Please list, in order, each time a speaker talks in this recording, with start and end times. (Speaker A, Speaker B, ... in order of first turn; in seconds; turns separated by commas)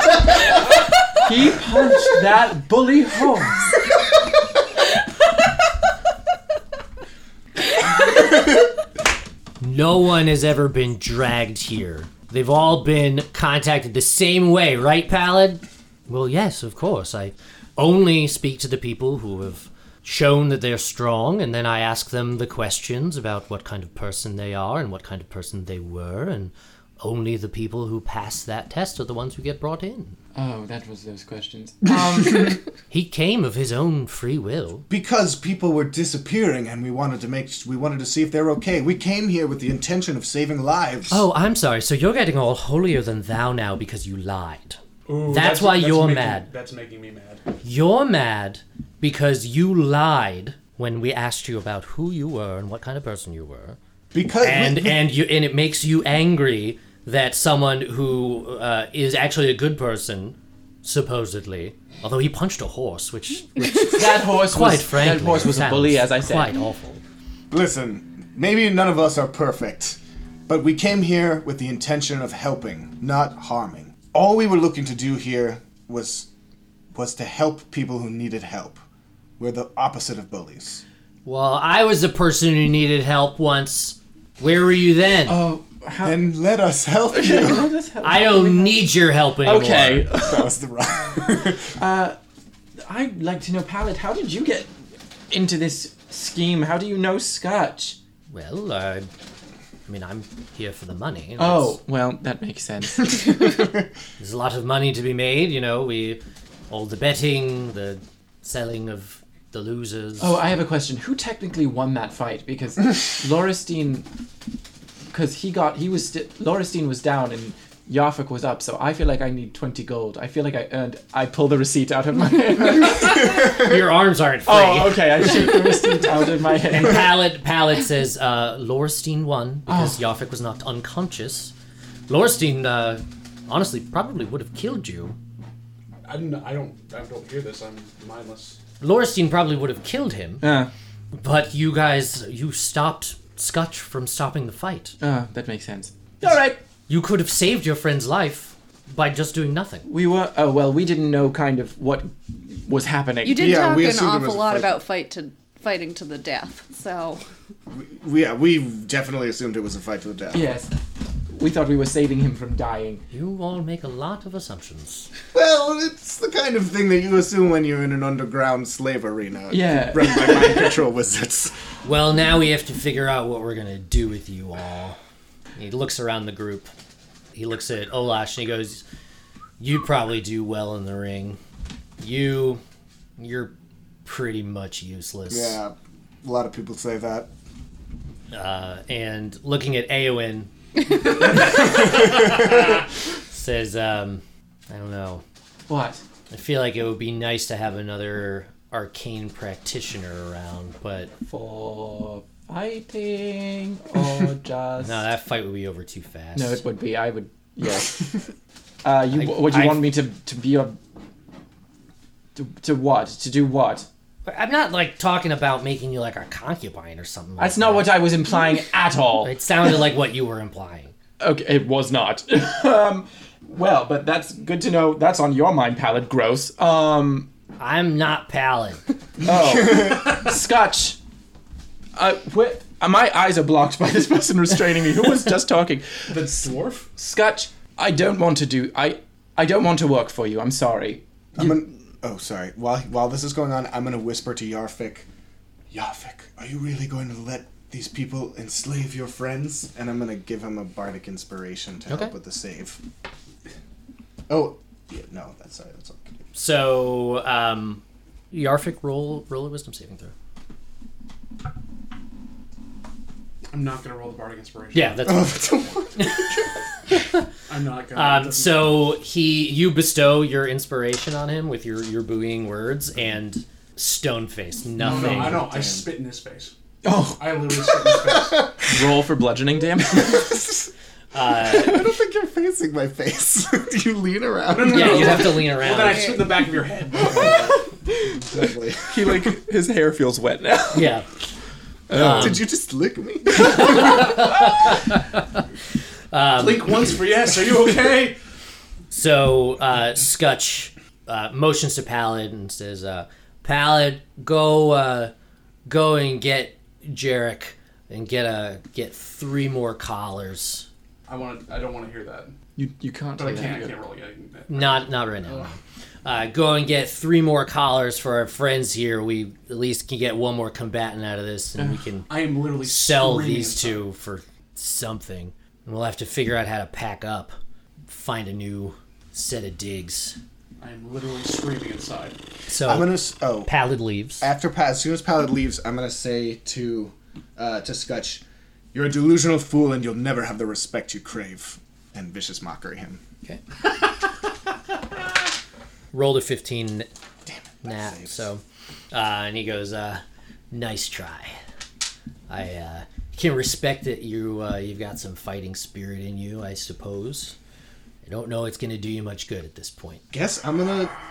Speaker A: 1.2-3.7, Speaker B: 9.6-30.2, Speaker A: 30.3-32.6, Speaker B: 32.9-34.9, Speaker C: 34.9-41.2, Speaker B: 41.1-46.5, Speaker D: 45.1-47.4, Speaker B: 47.6-53.8, Speaker C: 54.1-55.0, Speaker B: 54.4-67.0, Speaker A: 63.8-66.5, Speaker C: 67.5-76.3, Speaker C: 76.9-78.8, Speaker C: 79.4-80.8, Speaker B: 81.2-85.4, Speaker A: 85.3-86.2, Speaker C: 86.0-87.7, Speaker A: 87.1-90.5, Speaker B: 88.0-90.1, Speaker C: 90.2-91.8, Speaker A: 91.7-92.2, Speaker A: 92.8-94.7, Speaker A: 95.3-98.0, Speaker B: 98.3-99.1, Speaker B: 99.9-101.8, Speaker A: 101.4-103.7, Speaker B: 104.2-110.4, Speaker A: 110.2-114.0, Speaker A: 115.1-123.7, Speaker B: 123.1-125.3, Speaker A: 124.5-127.2, Speaker B: 126.7-131.5, Speaker A: 129.7-130.0, Speaker B: 132.1-135.2, Speaker D: 136.1-138.6, Speaker B: 138.8-140.4, Speaker A: 140.4-140.7, Speaker B: 141.1-144.9, Speaker A: 145.0-146.6, Speaker B: 146.2-149.8, Speaker A: 149.8-153.6, Speaker E: 153.2-157.2, Speaker C: 153.3-154.8, Speaker C: 157.7-160.5, Speaker A: 160.3-160.7, Speaker A: 161.3-163.0, Speaker B: 163.1-165.1, Speaker C: 165.3-171.5, Speaker A: 169.5-170.8, Speaker B: 171.8-175.0, Speaker B: 175.6-176.7, Speaker B: 177.3-178.8, Speaker B: 179.6-181.4, Speaker B: 182.0-182.6, Speaker B: 183.2-183.5, Speaker B: 184.0-185.6, Speaker C: 185.3-187.3, Speaker B: 188.3-195.2, Speaker A: 195.7-196.0, Speaker B: 196.3-201.1, Speaker A: 201.2-205.0, Speaker B: 204.8-206.6, Speaker A: 206.3-208.2, Speaker A: 208.8-210.8, Speaker B: 209.1-209.8, Speaker A: 212.3-213.9, Speaker B: 214.2-218.1, Speaker A: 217.4-219.4, Speaker B: 219.2-220.9, Speaker A: 221.2-227.3, Speaker B: 227.6-228.8, Speaker A: 229.2-231.0, Speaker A: 231.9-236.3, Speaker D: 236.1-236.9, Speaker A: 236.9-241.6, Speaker C: 241.3-245.1, Speaker C: 245.7-252.8, Speaker B: 251.9-252.1, Speaker C: 254.3-256.1, Speaker B: 256.3-260.1, Speaker D: 263.5-265.4, Speaker B: 264.7-265.3, Speaker C: 265.0-266.5, Speaker B: 266.0-266.3, Speaker D: 267.5-268.8, Speaker B: 267.9-275.4, Speaker D: 274.8-278.6, Speaker C: 274.8-275.8, Speaker A: 276.8-277.5, Speaker A: 278.6-280.5, Speaker C: 280.0-280.7, Speaker B: 281.1-281.8, Speaker C: 281.4-285.4, Speaker D: 284.4-287.6, Speaker B: 284.6-286.2, Speaker E: 285.7-286.2, Speaker C: 287.0-289.3, Speaker A: 288.9-290.9, Speaker B: 290.7-291.1, Speaker A: 291.9-292.4, Speaker B: 291.9-292.4, Speaker C: 292.0-294.1, Speaker B: 293.4-295.2, Speaker B: 296.1-296.8, Speaker D: 296.3-298.2, Speaker B: 298.9-305.1, Speaker B: 305.6-310.7, Speaker D: 311.1-312.3, Speaker A: 312.6-313.8, Speaker D: 313.1-315.5, Speaker B: 314.5-327.4, Speaker D: 322.1-323.8, Speaker B: 327.9-330.2, Speaker D: 330.6-332.2, Speaker B: 332.5-334.3, Speaker C: 332.6-333.5, Speaker C: 334.2-343.0, Speaker B: 345.9-346.9, Speaker C: 347.2-348.2, Speaker B: 347.6-351.4, Speaker B: 352.3-357.4, Speaker B: 358.0-360.0, Speaker C: 360.1-360.9